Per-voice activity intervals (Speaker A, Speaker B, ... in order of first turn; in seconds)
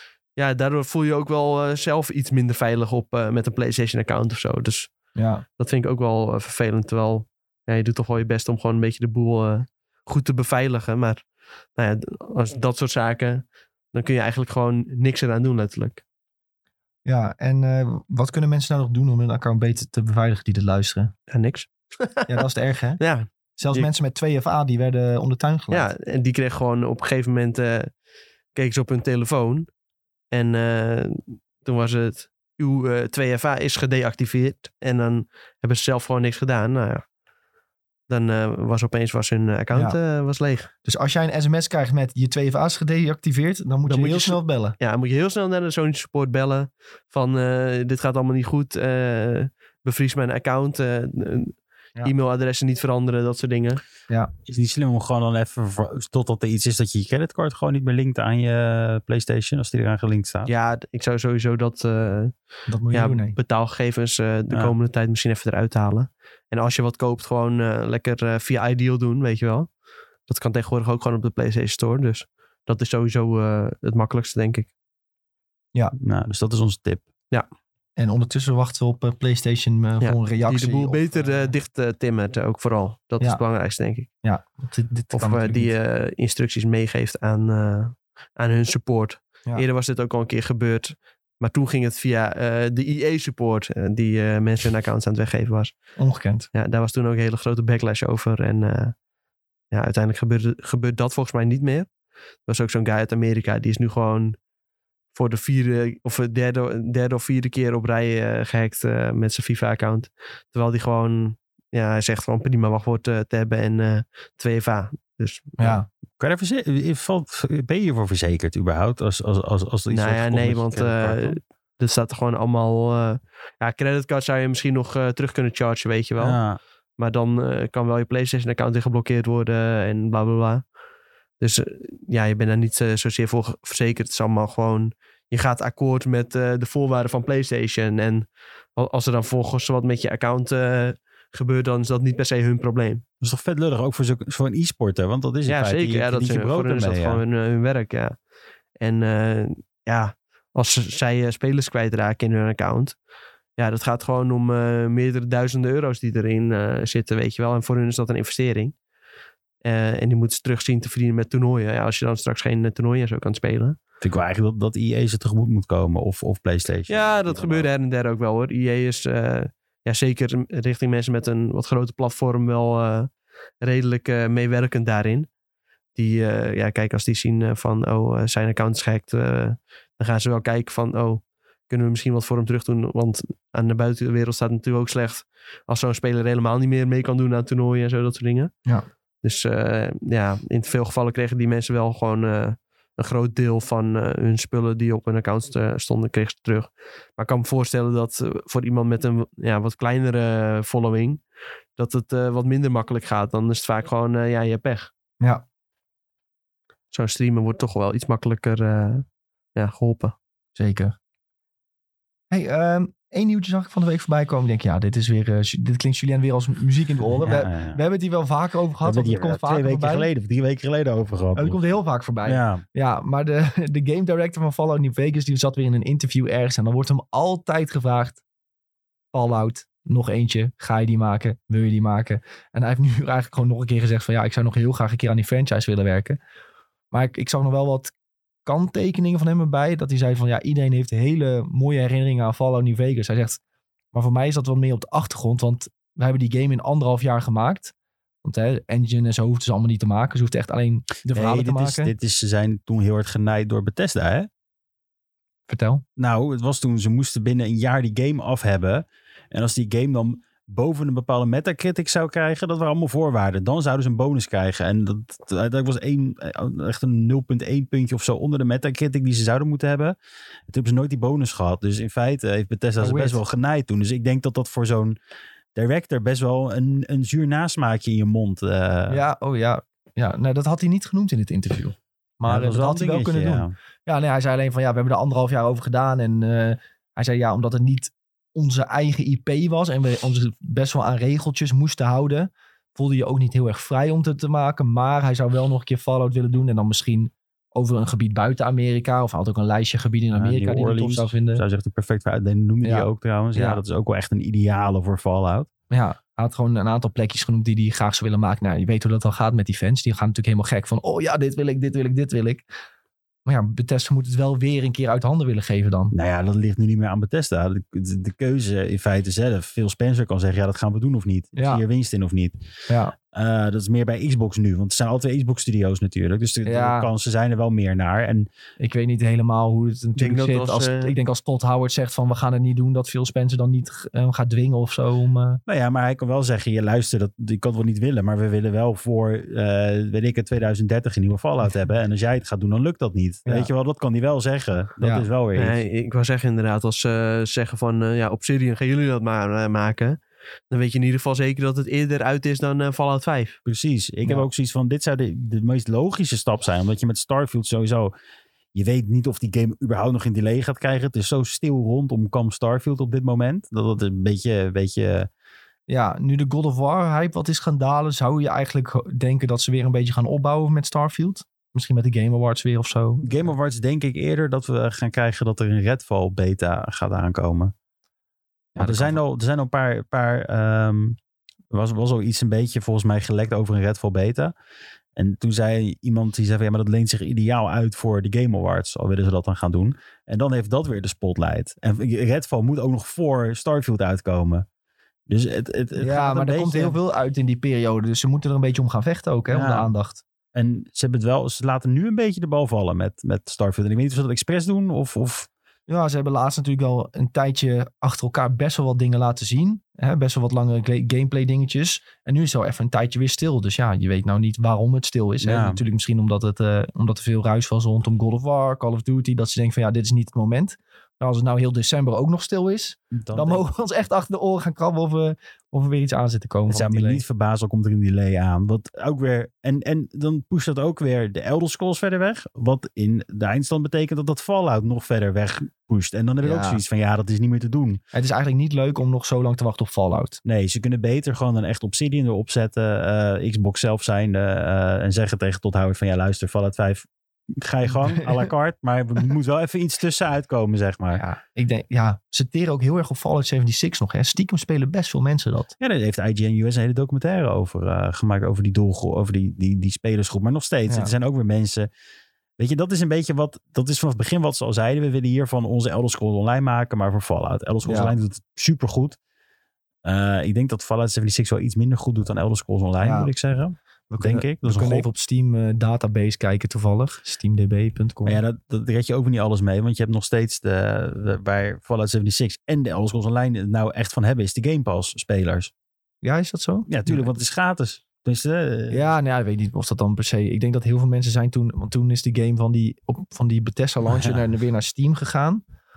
Speaker A: 0.4-4.9, 5.6-11.2, 11.8-16.0, 21.3-22.4, 23.0-23.9, 25.7-27.9, 28.6-29.7, 30.3-37.0, 38.1-40.7, 43.9-53.8, 60.5-62.4, 62.9-69.7, 70.3-74.7, 80.0-84.1, 85.1-95.7, 96.5-99.0, 99.7-101.9, 102.5-104.4, 105.1-115.8, 119.9-126.4, 127.0-130.7, 131.4-143.0, 145.5-148.2, 148.8-153.0, 153.6-158.7, 159.6-163.8, 166.9-173.1, 173.6-175.3, 176.0-188.5, 189.2-201.2, 201.8-204.9, 206.9-209.1, 209.6-210.2, 330.0-330.9, 345.4-350.0, 350.5-353.4
Speaker B: 5.2-5.5, 17.1-21.1, 22.3-23.0, 23.6-25.9, 40.9-44.8, 62.7-63.4, 78.0-81.5, 84.2-85.7, 96.0-96.5, 115.6-115.9, 210.6-210.9, 212.3-220.1, 221.3-228.2, 229.1-236.2, 236.9-237.9, 238.4-243.4, 243.9-251.9, 255.5-255.8, 272.8-273.2, 278.9-301.4, 302.6-303.6, 305.7-312.4, 313.3-315.9, 321.4-321.6, 322.7-322.9, 326.5-326.9, 328.6-335.4, 343.2-343.5, 344.8-345.1, 365.7-373.3, 378.6-379.0, 395.8-400.0, 405.7-427.0, 436.2-436.6, 437.9-440.2, 447.7-448.3, 451.0-455.5, 467.6-467.9, 472.8-473.1, 473.9-478.2, 486.0-487.1, 488.7-495.4
Speaker C: 54.5-60.5, 76.0-77.1, 116.2-121.4, 126.2-126.6, 143.2-147.2, 164.0-167.7, 217.0-217.8, 218.8-221.6, 222.2-222.6, 251.1-254.3, 256.0-269.9, 270.5-275.0, 275.6-279.0, 282.3-283.5, 300.1-305.5, 315.9-322.4, 323.1-328.3, 335.5-345.6, 353.5-357.9, 358.5-365.1, 373.0-377.5, 378.6-381.0, 381.5-384.3, 385.0-394.5, 395.1-396.8, 399.3-399.7, 400.3-405.3, 415.2-415.6, 422.9-423.4, 426.5-437.8, 440.2-451.0, 455.6-461.7, 462.4-469.0, 469.8-474.9, 478.1-485.5, 486.7-488.9, 493.9-494.2